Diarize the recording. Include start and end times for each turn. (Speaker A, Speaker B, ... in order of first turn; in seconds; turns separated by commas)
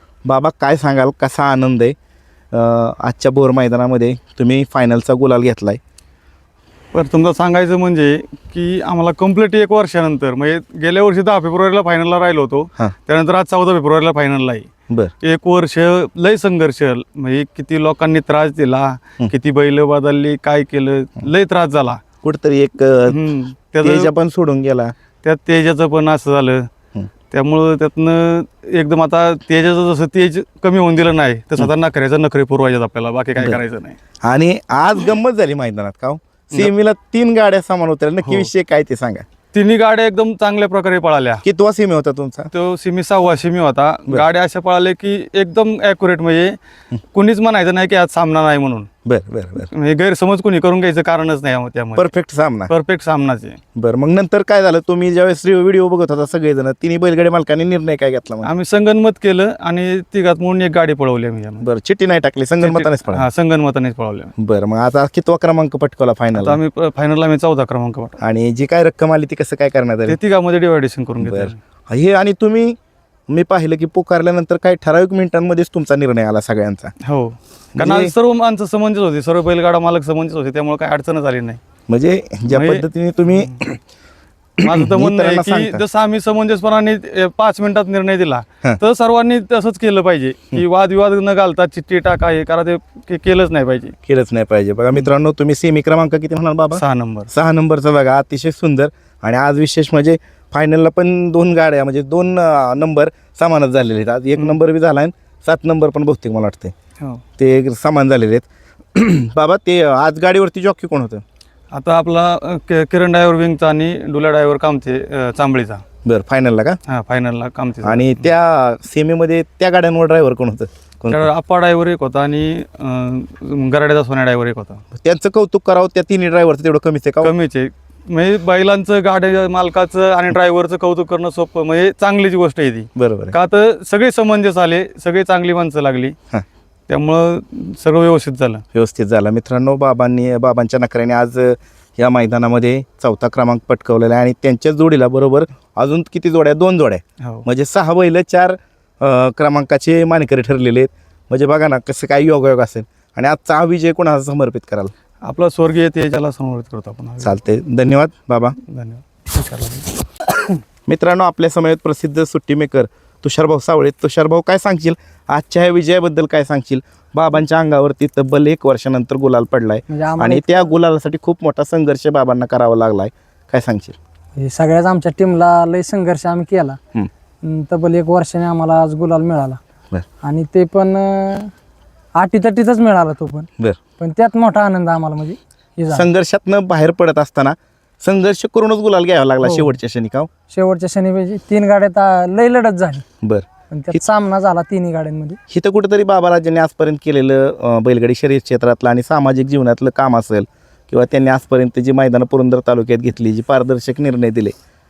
Speaker A: 0.2-1.9, Speaker A: 2.5-5.8, Speaker B: 6.9-14.7, Speaker B: 15.2-22.0, Speaker A: 22.2-23.2, Speaker B: 23.1-24.1, Speaker A: 23.8-24.9, Speaker B: 25.2-26.7, Speaker B: 27.3-34.0, Speaker A: 34.2-39.2, Speaker B: 38.2-38.5, Speaker B: 39.5-41.4, Speaker A: 41.4-42.5, Speaker B: 42.5-46.6, Speaker B: 47.1-48.9, Speaker A: 49.0-49.7, Speaker B: 49.7-52.2, Speaker A: 52.0-52.7, Speaker B: 52.7-53.6, Speaker A: 53.8-58.5, Speaker B: 58.4-61.6, Speaker A: 61.6-63.2, Speaker B: 62.6-64.3, Speaker A: 64.4-66.6, Speaker B: 66.3-68.2, Speaker A: 68.2-70.2, Speaker B: 70.1-71.6, Speaker A: 71.2-72.8, Speaker A: 73.3-76.9, Speaker B: 77.0-81.6, Speaker A: 77.8-78.1, Speaker A: 81.9-83.8, Speaker B: 82.5-83.5, Speaker A: 84.6-85.8, Speaker B: 84.6-94.0, Speaker A: 94.0-106.7, Speaker B: 96.7-97.3, Speaker A: 107.4-111.2, Speaker B: 111.7-115.8, Speaker A: 116.0-116.8, Speaker B: 116.9-118.3, Speaker A: 117.8-121.3, Speaker B: 121.1-124.8, Speaker A: 124.9-127.3, Speaker B: 127.2-136.2, Speaker A: 132.9-133.4, Speaker B: 136.9-138.6, Speaker A: 138.7-154.9, Speaker B: 147.2-147.4, Speaker B: 155.2-157.4, Speaker A: 157.2-158.6, Speaker B: 158.7-159.9, Speaker A: 160.9-174.0, Speaker C: 169.9-170.7, Speaker C: 174.4-176.8, Speaker C: 177.4-179.6, Speaker C: 180.2-181.5, Speaker C: 182.2-183.5, Speaker C: 184.0-186.1, Speaker A: 185.9-190.3, Speaker C: 190.5-193.0, Speaker A: 193.2-194.0, Speaker C: 193.7-195.4, Speaker A: 195.5-204.5